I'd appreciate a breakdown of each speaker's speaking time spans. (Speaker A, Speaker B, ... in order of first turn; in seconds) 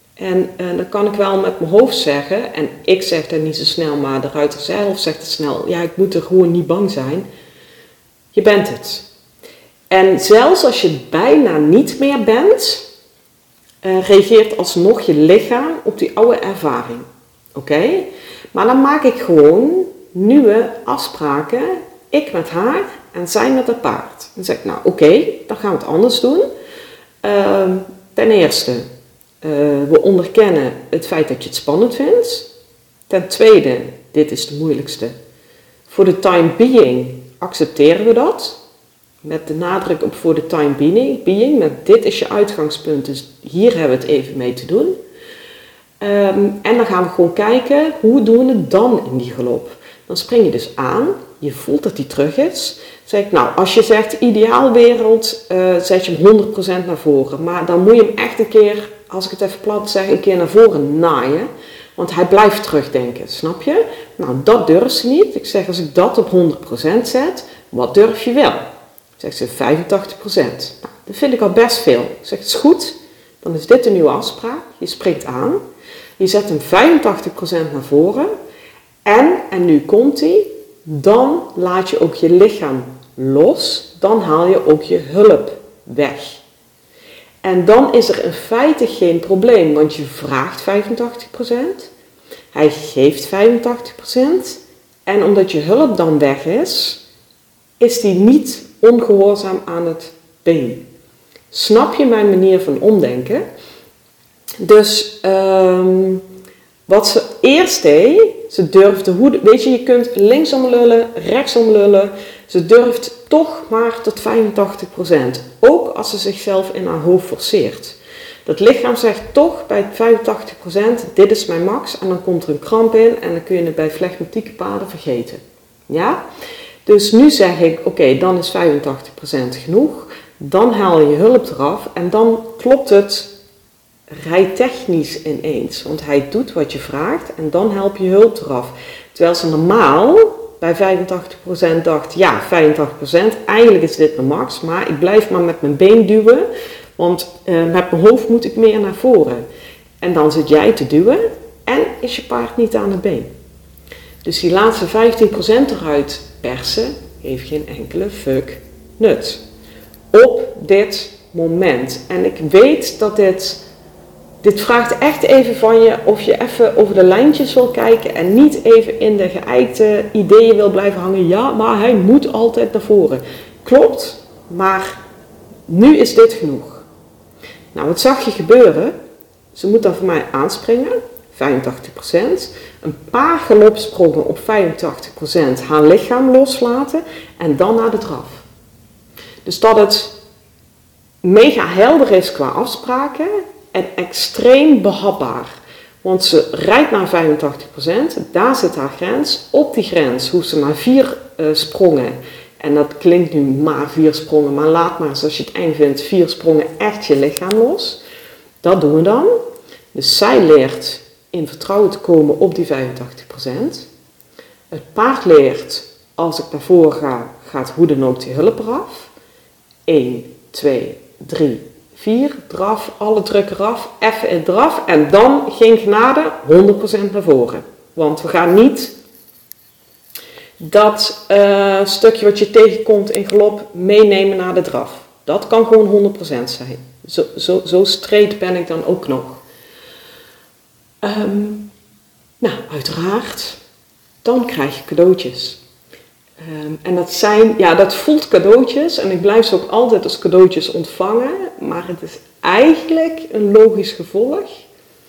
Speaker A: 0.2-7.3, 8.3-9.1, 9.9-12.9, 13.8-26.4, 27.2-28.8, 29.4-32.5, 33.1-35.1, 35.9-38.6, 39.2-45.0, 46.0-68.7, 69.2-75.6, 76.2-78.3, 79.0-86.4, 87.4-91.9, 92.5-97.0, 97.8-100.8, 101.5-103.4, 104.6-106.2, 106.9-126.2, 126.8-133.3, 134.1-149.4, 150.0-153.3, 154.2-159.4, 160.1-163.6, 164.4-175.0, 175.7-176.8, 177.7-178.9, 179.5-188.4, 189.4-190.2, 191.2-208.0, 208.6-209.3, 209.9-213.9, 214.7-219.1, 219.9-228.9, 230.6-239.4, 241.0-241.7, 242.4-243.6, 244.2-245.6, 246.4-254.6